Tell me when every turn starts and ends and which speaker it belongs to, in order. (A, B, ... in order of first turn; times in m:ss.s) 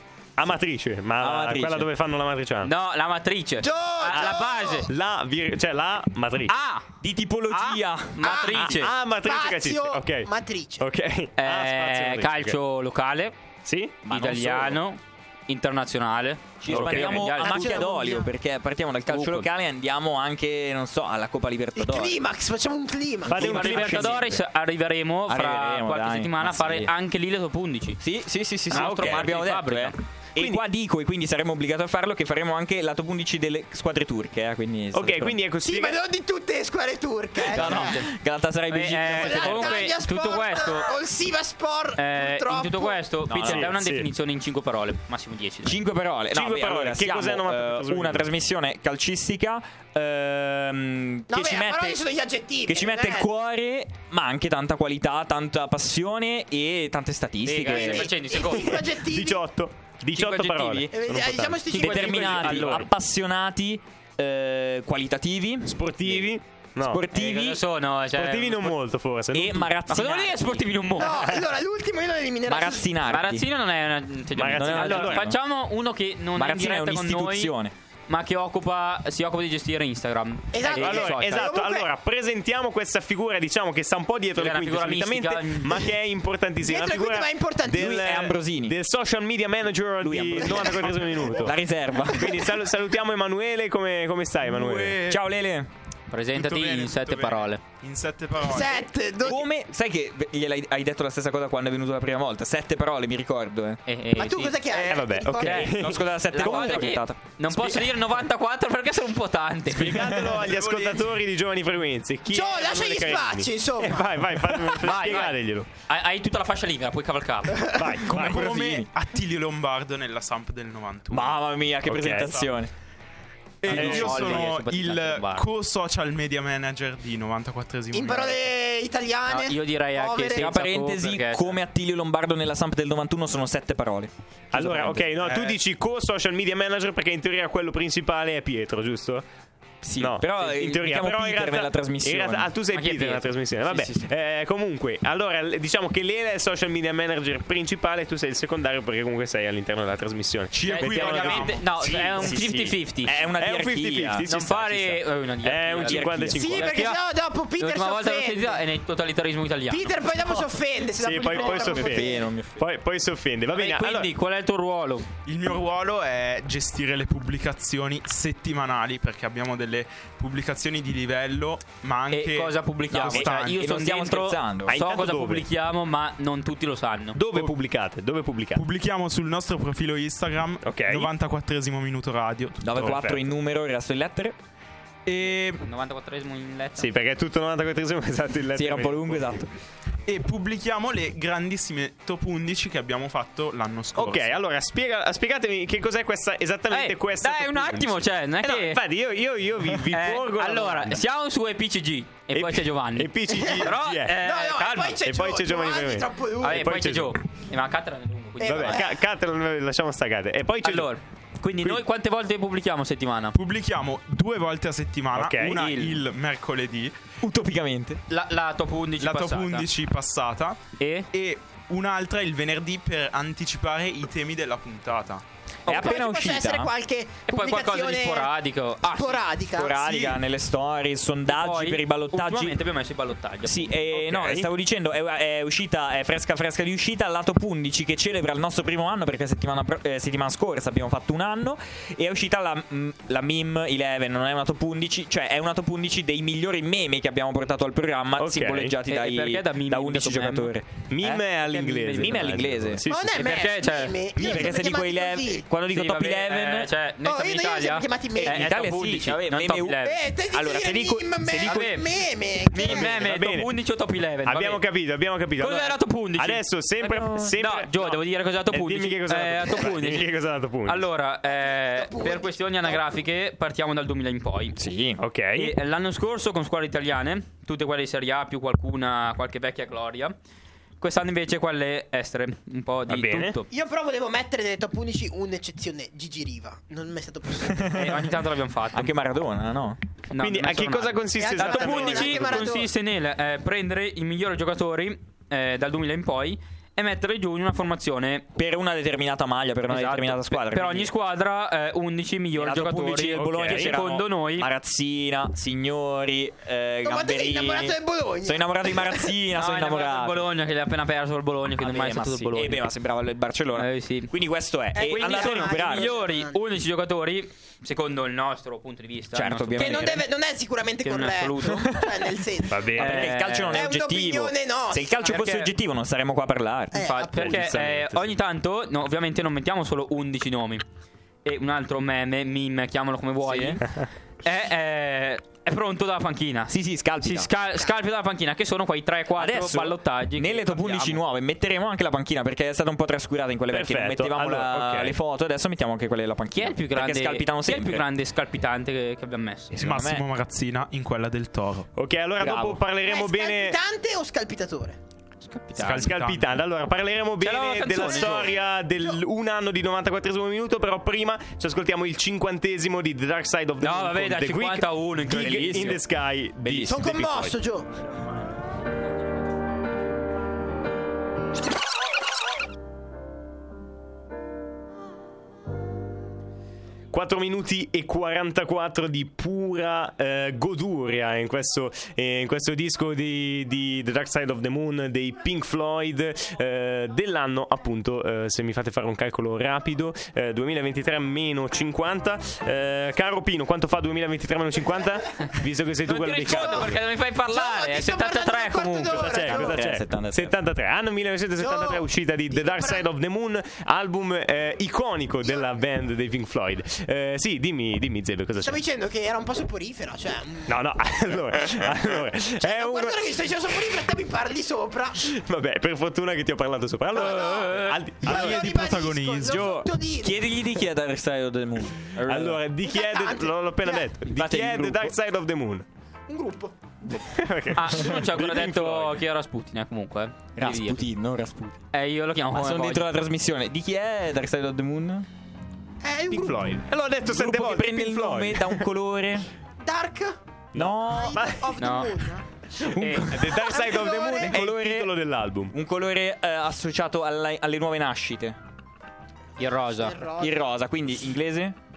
0:00.4-0:02.7 A
0:01.2-0:01.9 B
0:02.6-0:04.9 C
0:03.6-0:04.9 D
0:04.1-0:06.6 A
0:06.5-0:06.9 C
0:07.0-0:08.2 B
0:07.5-0:08.9 C
0:08.2-0:10.8 D
0:08.5-0:10.3 A
0:10.8-0:12.6 A
0:11.4-0:13.3 C
0:13.6-0:14.1 A
0:14.0-0:14.8 B
0:14.1-0:17.9 C
0:16.6-0:22.2 B
0:16.6-0:17.2 A
0:17.1-0:18.3 D
0:19.0-0:19.5 C
0:21.8-0:23.5 D
0:23.2-0:24.3 A
0:23.3-0:24.4 B
0:23.4-0:28.0 C
0:25.3-0:26.9 B
0:28.0-0:35.4 B
0:28.7-0:29.9 C
0:28.7-0:29.4 A
0:30.4-0:30.6 A
0:34.9-0:36.0 A
0:35.6-0:38.0 D
0:37.4-0:39.9 B
0:37.5-0:38.1 C
0:38.7-0:41.0 C
0:39.0-0:43.0 D
0:42.0-0:45.8 C
0:43.3-0:43.7 B
0:43.4-0:44.1 A
0:45.6-0:52.0 B
0:46.3-0:48.3 A
0:51.3-0:53.3 D
0:52.6-0:58.1 B
0:57.4-0:58.8 C
0:57.6-0:59.4 D
0:58.4-1:02.9 A
1:00.1-1:00.9 B
1:00.9-1:02.8 D
1:01.7-1:05.8 B
1:05.6-1:07.0 A
1:06.8-1:07.6 B
1:07.1-1:08.7 C
1:08.1-1:09.8 A
1:09.3-1:10.6 B
1:09.9-1:11.2 C
1:11.0-1:12.9 D
1:12.4-1:13.4 B
1:13.0-1:17.5 C
1:14.3-1:15.3 A
1:14.4-1:15.4 B
1:16.3-1:17.7 B
1:18.1-1:21.5 C
1:20.5-1:21.9 D
1:20.6-1:35.0 A
1:24.3-1:25.9 C
1:26.6-1:28.0 D
1:27.7-1:28.7 B
1:30.0-1:32.6 B
1:30.4-1:30.8 D
1:34.4-1:35.2 E
1:35.1-1:35.7 B
1:36.1-1:37.6 C
1:36.3-1:38.9 E
1:38.4-1:39.5 D
1:39.2-1:43.8 B
1:43.8-1:50.1 C
1:44.2-1:45.7 D
1:44.8-1:46.7 A
1:45.4-1:47.8 B
1:49.7-1:55.7 A
1:49.9-1:51.2 E
1:50.0-1:50.3 B
1:52.3-1:54.9 D
1:54.8-1:55.3 C
1:55.9-1:57.7 C
1:57.6-1:57.8 D
1:57.8-1:58.5 A
1:58.0-2:02.5 E
1:58.0-1:58.9 B
2:01.1-2:02.7 B
2:01.8-2:02.3 A
2:03.6-2:08.4 E
2:03.6-2:05.5 C
2:03.7-2:04.1 A
2:03.7-2:04.2 B
2:07.9-2:10.6 D
2:09.2-2:11.6 C
2:10.3-2:15.3 B
2:14.5-2:19.2 A
2:19.8-2:22.5 B
2:20.0-2:31.5 A
2:22.7-2:23.9 C
2:30.6-2:32.3 E
2:30.6-2:34.3 B
2:30.7-2:33.2 C
2:32.4-2:32.7 A
2:33.4-2:36.7 A
2:34.2-2:37.0 C
2:35.8-2:36.5 B
2:36.3-2:38.6 D
2:37.6-2:39.9 C
2:39.7-2:42.3 D
2:41.0-2:44.1 A
2:41.2-2:42.6 B
2:43.5-2:45.1 C
2:45.2-2:53.6 E
2:52.1-2:57.3 C
2:53.1-2:54.8 B
2:54.6-2:55.4 A
2:57.1-2:58.6 A
2:58.5-3:02.7 E
3:00.6-3:01.1 A
3:02.6-3:04.4 B
3:02.6-3:03.3 A
3:05.1-3:05.6 E
3:05.5-3:06.9 C
3:06.8-3:09.4 A
3:08.5-3:09.5 B
3:10.0-3:14.4 E
3:13.9-3:21.0 A
3:16.7-3:18.8 C
3:19.9-3:25.0 C
3:22.3-3:24.2 A
3:23.3-3:26.7 D
3:25.0-3:27.2 A
3:26.4-3:28.8 C
3:28.4-3:29.0 D
3:28.5-3:30.9 A
3:30.6-3:33.4 C
3:33.3-3:36.9 E
3:35.1-3:35.6 A
3:35.5-3:36.0 C
3:37.2-3:38.0 B
3:38.1-3:39.6 C
3:39.0-3:40.6 E
3:40.8-3:41.1 C
3:41.1-3:45.2 E
3:45.6-3:46.7 B
3:45.6-3:48.3 D
3:47.3-3:49.2 C
3:48.9-3:49.8 D
3:49.5-3:52.6 B
3:51.3-3:53.8 C
3:53.4-4:10.6 B
3:53.9-3:54.5 A
4:08.2-4:08.8 A
4:08.8-4:14.0 C
4:10.9-4:13.2 A
4:11.9-4:12.8 B
4:12.9-4:15.5 D
4:14.2-4:16.7 B
4:15.7-4:20.0 C
4:17.0-4:18.5 D
4:18.2-4:19.8 B
4:19.8-4:23.0 D
4:20.3-4:21.6 B
4:21.3-4:21.9 C
4:22.5-4:24.6 C
4:22.9-4:23.5 A
4:24.2-4:30.9 A
4:25.4-4:26.4 C
4:26.8-4:27.4 B
4:27.4-4:30.1 C
4:30.6-4:34.6 C
4:31.3-4:32.9 D
4:34.6-4:35.0 B
4:35.0-4:35.5 A
4:35.3-4:40.2 C
4:40.8-4:43.5 C
4:42.9-4:43.4 A
4:43.5-4:48.0 D
4:47.7-4:48.9 C
4:48.7-4:49.8 B
4:50.1-4:58.2 C
4:50.2-4:52.4 A
4:51.1-4:52.7 D
4:58.3-5:00.9 B
4:59.7-5:04.5 C
5:02.4-5:10.3 B
5:03.1-5:03.7 A
5:06.8-5:09.1 D
5:09.3-5:12.6 C
5:11.6-5:16.0 B
5:13.5-5:14.1 C
5:14.7-5:16.4 D
5:14.8-5:20.0 C
5:19.1-5:20.0 B
5:19.5-5:25.5 D
5:20.8-5:21.7 C
5:22.5-5:23.0 A
5:22.7-5:26.7 B
5:22.7-5:23.6 C
5:25.1-5:25.5 C
5:26.7-5:27.4 D
5:26.8-5:30.6 C
5:27.1-5:28.1 A
5:31.2-5:33.7 C
5:33.2-5:33.6 B
5:34.2-5:41.0 C
5:36.5-5:37.3 B
5:39.2-5:47.8 B
5:43.5-5:45.0 A
5:46.3-5:49.5 C
5:49.5-5:50.0 B
5:49.6-5:51.7 E
5:51.7-5:53.6 A
5:52.2-5:52.6 B
5:52.8-5:54.8 D
5:55.2-5:55.9 C
5:55.5-5:56.4 E
5:55.8-6:07.3 A
5:57.2-5:58.3 C
5:57.9-5:59.0 D
6:03.6-6:05.8 C
6:06.4-6:06.7 C
6:06.6-6:07.7 D
6:16.9-6:36.6 A
6:35.8-6:39.2 C
6:36.3-6:36.7 D
6:37.3-6:39.6 D
6:38.9-6:48.6 A
6:39.2-6:40.3 B
6:41.4-6:42.9 D
6:45.2-6:45.5 D
6:48.4-6:50.6 D
6:50.5-6:53.8 A
6:52.4-6:55.0 D
6:55.0-6:58.4 A
6:56.9-7:00.2 D
6:57.0-6:57.8 C
6:58.0-6:59.5 E
6:59.3-7:02.4 B
7:02.0-7:05.6 A
7:02.6-7:03.9 D
7:04.1-7:05.0 B
7:06.1-7:06.7 D
7:07.0-7:09.0 A
7:07.5-7:10.8 C
7:10.4-7:11.6 B
7:11.7-7:12.9 C
7:12.3-7:15.0 B
7:15.8-7:16.3 D
7:16.1-7:18.6 A
7:17.1-7:19.3 B
7:19.6-7:20.2 D
7:20.5-7:21.5 A
7:20.5-7:21.2 B
7:20.8-7:22.2 D
7:21.6-7:21.9 C
7:22.6-7:25.5 A
7:22.6-7:24.9 B
7:22.8-7:23.1 C
7:23.4-7:24.4 D
7:25.5-7:28.4 B
7:29.4-7:30.0 C
7:29.4-7:30.4 D
7:30.2-7:31.5 B